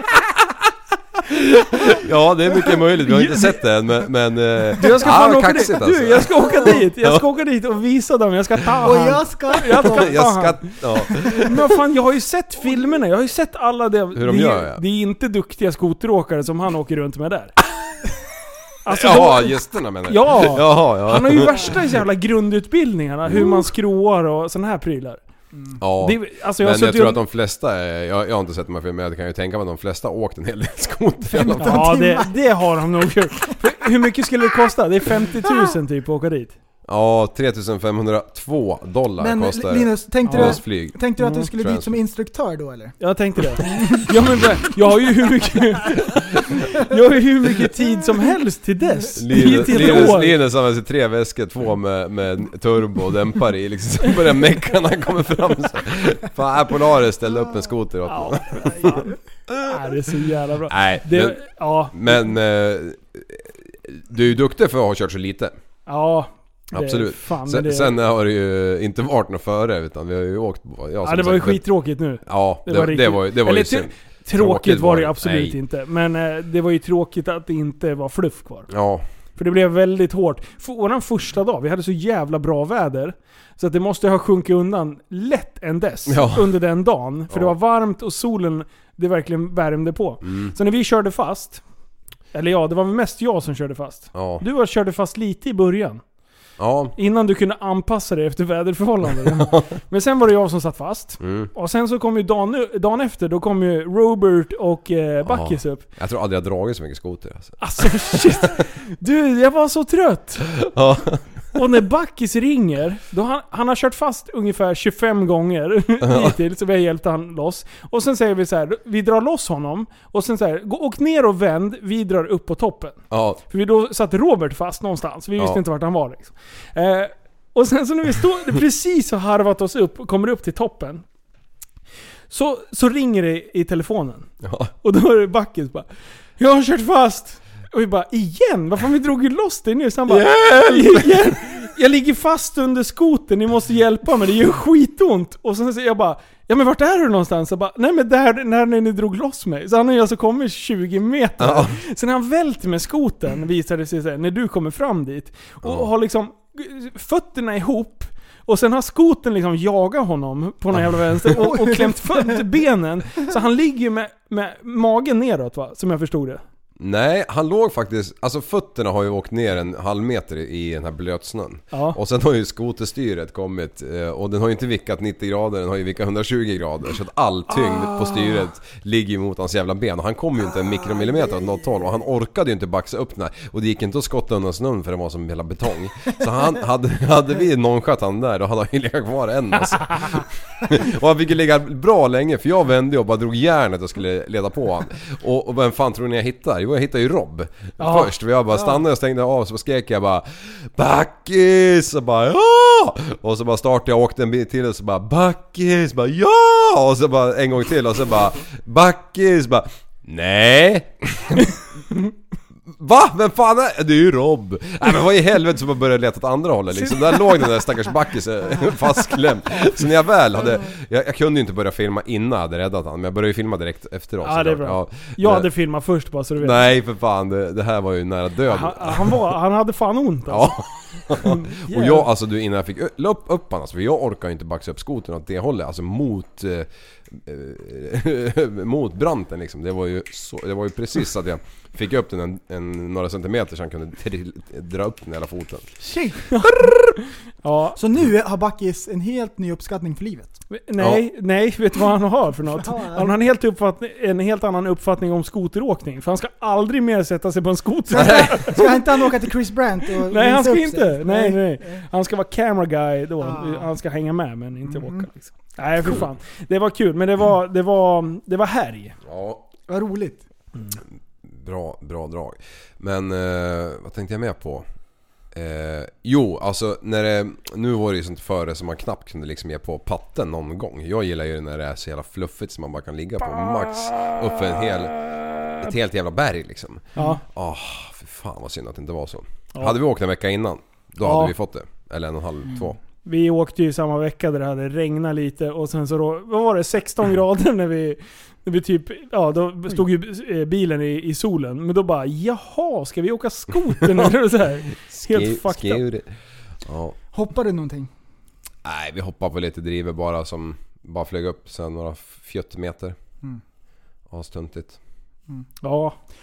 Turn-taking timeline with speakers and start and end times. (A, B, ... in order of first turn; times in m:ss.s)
0:01.2-0:07.2 A
0:03.0-0:03.6 B
0:04.8-0:17.5 B
0:06.5-0:06.7 C
0:08.8-0:10.2 C
0:09.7-0:11.6 A
0:14.1-0:14.8 A
0:18.8-0:25.2 B
0:18.9-0:21.8 A
0:23.2-0:23.6 A
0:25.5-0:25.8 C
0:25.8-0:32.0 A
0:26.0-0:27.2 B
0:31.3-0:32.5 C
0:31.6-0:36.5 B
0:36.9-0:42.0 A
0:39.2-0:43.0 C
0:40.2-0:40.6 B
0:41.2-0:41.5 B
0:43.0-0:50.4 B
0:43.6-0:44.0 C
0:49.1-0:59.0 A
0:49.6-0:50.0 C
0:58.1-0:59.1 B
0:59.5-0:59.8 A
0:59.6-1:02.3 B
1:00.7-1:05.5 A
1:05.9-1:07.9 B
1:06.7-1:11.6 A
1:11.0-1:18.7 B
1:12.2-1:15.6 A
1:18.7-1:19.0 A
1:19.4-1:31.6 B
1:26.1-1:26.5 A
1:27.3-1:27.6 A
1:30.2-1:30.5 A
1:32.3-1:36.0 B
1:34.1-1:34.4 A
1:36.6-1:36.9 A
1:37.0-1:45.8 B
1:39.2-1:39.7 A
1:41.2-1:41.5 A
1:45.2-1:48.5 A
1:47.6-1:50.6 B
1:50.5-1:51.2 A
1:51.5-2:03.0 B
1:56.0-1:56.3 A
2:03.1-2:03.4 A
2:03.5-2:11.0 B
2:12.3-2:14.3 B
2:14.4-2:14.7 A
2:14.8-2:15.9 B
2:16.4-2:46.4 B
2:20.1-2:21.4 A
2:31.4-2:31.8 A
2:35.6-2:35.9 A
2:41.3-2:42.4 C
2:46.8-3:31.6 A
2:51.7-2:52.0 B
2:57.5-2:58.5 B
3:00.5-3:01.9 C
3:09.8-3:10.2 B
3:17.8-3:18.1 B
3:32.7-3:45.5 A
3:36.7-3:37.4 B
3:44.2-3:46.6 B
3:46.4-3:49.3 A
3:48.5-3:50.6 B
3:50.3-4:05.7 A
3:51.1-3:52.1 B
4:05.8-4:06.7 C
4:06.3-4:07.8 B
4:07.8-4:10.4 C
4:10.5-4:18.9 B
4:12.5-4:13.2 C
4:17.9-4:21.8 C
4:17.9-4:18.6 A
4:20.1-4:29.0 B
4:23.2-4:23.7 C
4:24.7-4:25.1 C
4:29.0-4:29.4 A
4:29.7-4:30.2 C
4:31.2-4:34.6 A
4:35.3-4:45.0 A
4:45.5-4:52.8 A
4:47.0-4:47.2 B
4:51.0-4:51.3 B
4:53.0-5:05.8 B
5:03.8-5:04.1 A
5:04.7-5:07.0 A
5:07.1-5:07.9 C
5:08.6-5:13.0 A
5:14.1-5:14.8 A
5:15.6-5:16.0 B